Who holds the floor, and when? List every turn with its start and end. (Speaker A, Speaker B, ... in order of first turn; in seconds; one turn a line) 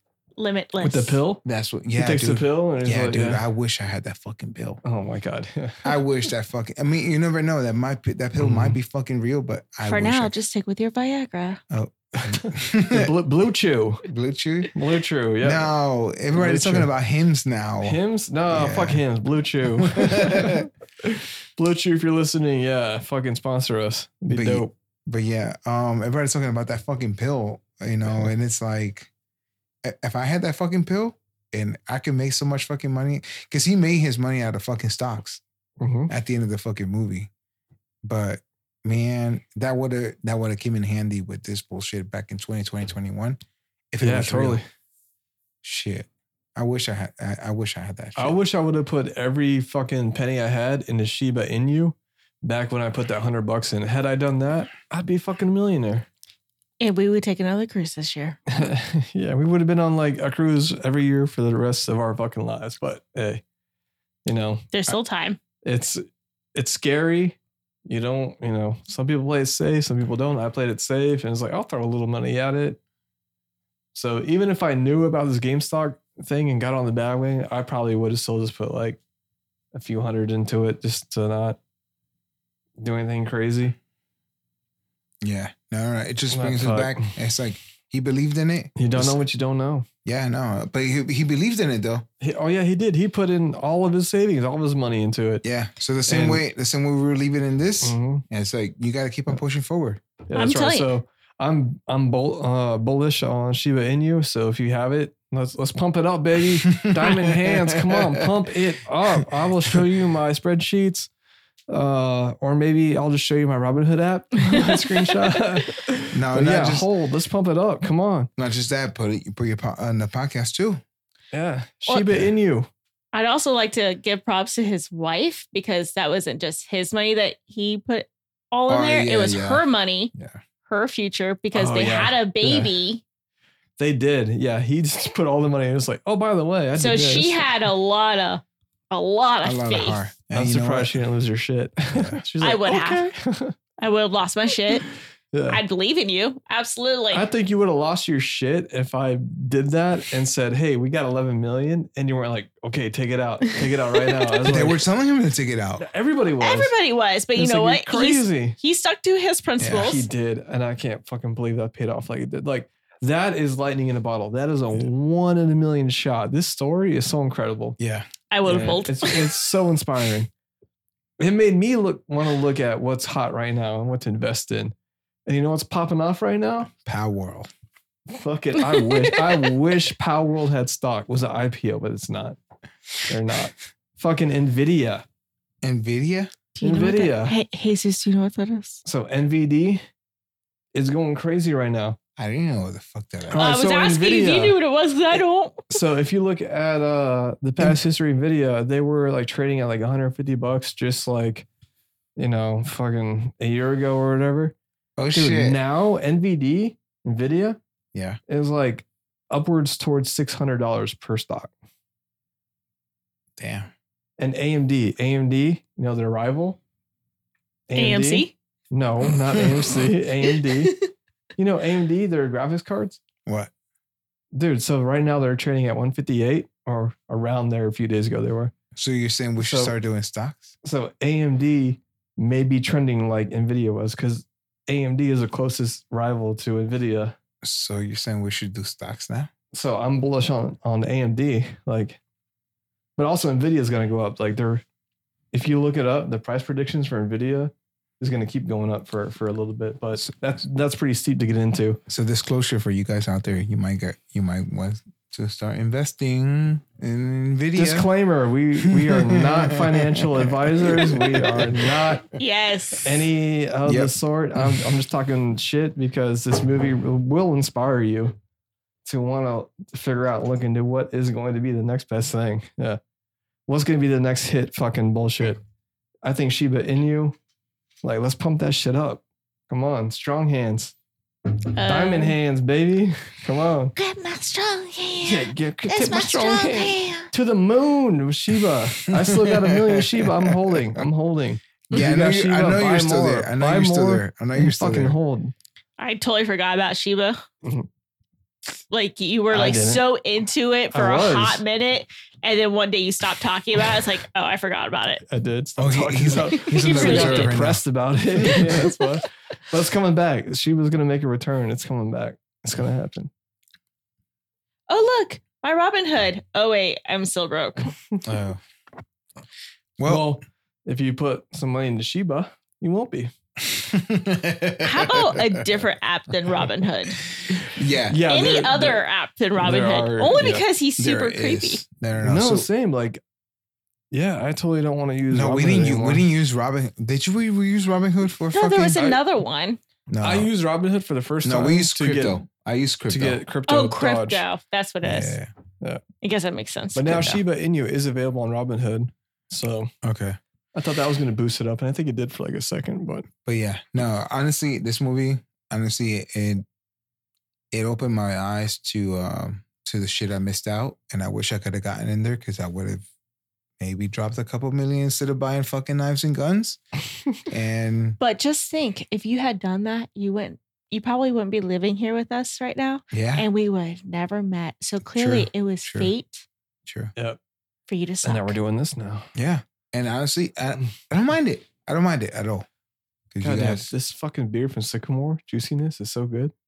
Speaker A: 0.4-1.2
Speaker B: 0.8-1.4
Speaker C: 1.4-4.8
Speaker B: 1.9-3.4
Speaker B: 4.8-6.0
Speaker C: 5.8-10.3
Speaker B: 8.4-8.8
Speaker A: 9.8-11.6
Speaker C: 11.7-13.1
Speaker B: 12.2-14.0
Speaker C: 14.0-14.7
Speaker B: 14.7-15.7
Speaker C: 15.4-18.0
Speaker B: 16.3-16.9
Speaker B: 17.8-24.7
Speaker C: 18.5-19.0
Speaker C: 19.8-20.7
Speaker C: 24.3-29.1
Speaker B: 28.1-28.3
Speaker C: 29.8-35.4
Speaker B: 35.8-36.1
Speaker C: 36.1-37.3
Speaker C: 38.0-43.4
Speaker C: 43.9-44.6
Speaker B: 44.0-44.6
Speaker C: 45.6-48.4
Speaker B: 48.1-56.1
Speaker A: 56.8-58.6
Speaker B: 58.5-63.4
Speaker B: 64.2-64.7
Speaker A: 64.7-65.4
Speaker B: 65.6-72.8
Speaker B: 73.9-79.0
Speaker B: 79.7-81.6
Speaker B: 82.8-83.7
Speaker C: 85.2-89.2
Speaker B: 86.3-87.2
Speaker B: 88.8-89.8
Speaker C: 90.0-92.0
Speaker B: 92.2-95.4
Speaker C: 95.4-100.0
Speaker B: 96.1-96.4
Speaker B: 97.8-98.2
Speaker B: 100.3-111.1
Speaker A: 100.3-100.9
Speaker C: 106.7-108.2
Speaker B: 111.7-118.3
Speaker A: 114.5-115.0
Speaker C: 116.1-116.9
Speaker C: 118.4-120.8
Speaker B: 121.3-122.7
Speaker A: 123.1-130.1
Speaker C: 128.7-130.4
Speaker A: 130.7-133.0
Speaker B: 131.5-132.7
Speaker B: 133.8-137.5
Speaker A: 136.8-140.0
Speaker C: 139.4-141.0
Speaker B: 140.3-143.6
Speaker A: 142.4-143.1
Speaker A: 143.8-144.8
Speaker B: 145.3-145.6
Speaker A: 145.5-147.2
Speaker B: 147.1-154.8
Speaker C: 154.4-155.8
Speaker B: 155.8-156.7
Speaker A: 156.4-160.1
Speaker B: 157.3-158.6
Speaker C: 159.6-160.0
Speaker B: 159.8-167.8
Speaker C: 167.8-168.1
Speaker A: 168.3-169.3
Speaker B: 168.4-170.3
Speaker B: 171.2-174.7
Speaker B: 175.2-176.7
Speaker C: 176.8-177.5
Speaker B: 178.1-182.4
Speaker A: 178.7-179.3
Speaker B: 183.1-185.0
Speaker C: 185.6-186.3
Speaker A: 186.6-188.8
Speaker B: 186.6-187.4
Speaker B: 188.8-189.8
Speaker B: 190.7-192.0
Speaker C: 192.2-193.5
Speaker B: 193.3-194.6
Speaker A: 193.3-195.7
Speaker B: 195.7-201.4
Speaker B: 202.2-204.5
Speaker C: 205.0-205.6
Speaker B: 205.1-207.6
Speaker C: 207.9-208.2
Speaker B: 208.3-211.5
Speaker C: 213.4-213.7
Speaker B: 214.2-216.6
Speaker B: 217.7-220.8
Speaker A: 217.7-218.3
Speaker A: 220.6-220.9
Speaker B: 221.4-223.0
Speaker C: 223.2-223.5
Speaker B: 224.3-228.5
Speaker C: 228.7-230.5
Speaker B: 229.4-229.7
Speaker B: 230.6-237.2
Speaker C: 237.4-239.3
Speaker B: 239.5-242.0
Speaker B: 243.0-244.6
Speaker B: 245.3-251.8
Speaker C: 251.9-257.9
Speaker B: 257.5-262.1
Speaker C: 258.6-261.9
Speaker A: 262.1-262.9
Speaker B: 262.8-268.1
Speaker C: 263.6-264.6
Speaker B: 268.8-272.8
Speaker B: 273.5-275.4
Speaker B: 276.0-277.2
Speaker B: 277.8-280.7
Speaker A: 281.6-282.1
Speaker B: 281.6-283.7
Speaker A: 283.8-287.1
Speaker B: 285.0-295.3
Speaker C: 288.9-290.6
Speaker C: 291.7-295.0
Speaker A: 295.8-297.2
Speaker B: 297.4-297.7
Speaker A: 298.7-305.0
Speaker B: 299.3-299.8
Speaker B: 300.7-301.4
Speaker B: 305.0-313.1
Speaker C: 305.6-307.6
Speaker A: 306.4-307.3
Speaker A: 308.3-308.9
Speaker A: 314.7-317.7
Speaker C: 318.0-318.4
Speaker C: 319.8-320.1
Speaker B: 319.8-323.1
Speaker C: 323.4-325.4
Speaker A: 324.6-327.0
Speaker B: 327.4-328.8
Speaker C: 327.5-328.0
Speaker A: 328.1-331.6
Speaker B: 329.4-330.4
Speaker C: 330.8-332.5
Speaker B: 332.0-333.0
Speaker B: 333.9-336.0
Speaker C: 335.1-338.8
Speaker A: 338.3-339.6
Speaker B: 338.7-339.0
Speaker C: 339.9-340.3
Speaker B: 340.0-342.2
Speaker C: 341.2-343.2
Speaker B: 342.9-344.2
Speaker A: 343.5-345.2
Speaker C: 344.8-345.3
Speaker A: 346.0-347.2
Speaker B: 346.7-349.7
Speaker C: 349.8-350.2
Speaker B: 350.5-353.1
Speaker C: 353.2-356.4
Speaker C: 357.5-362.9
Speaker C: 363.6-366.6
Speaker C: 367.2-368.0
Speaker A: 368.0-376.2
Speaker C: 372.9-373.3
Speaker C: 374.9-375.9
Speaker C: 376.6-376.9
Speaker A: 377.7-378.4
Speaker B: 378.0-379.1
Speaker C: 379.1-382.4
Speaker C: 383.1-383.7
Speaker B: 383.2-386.3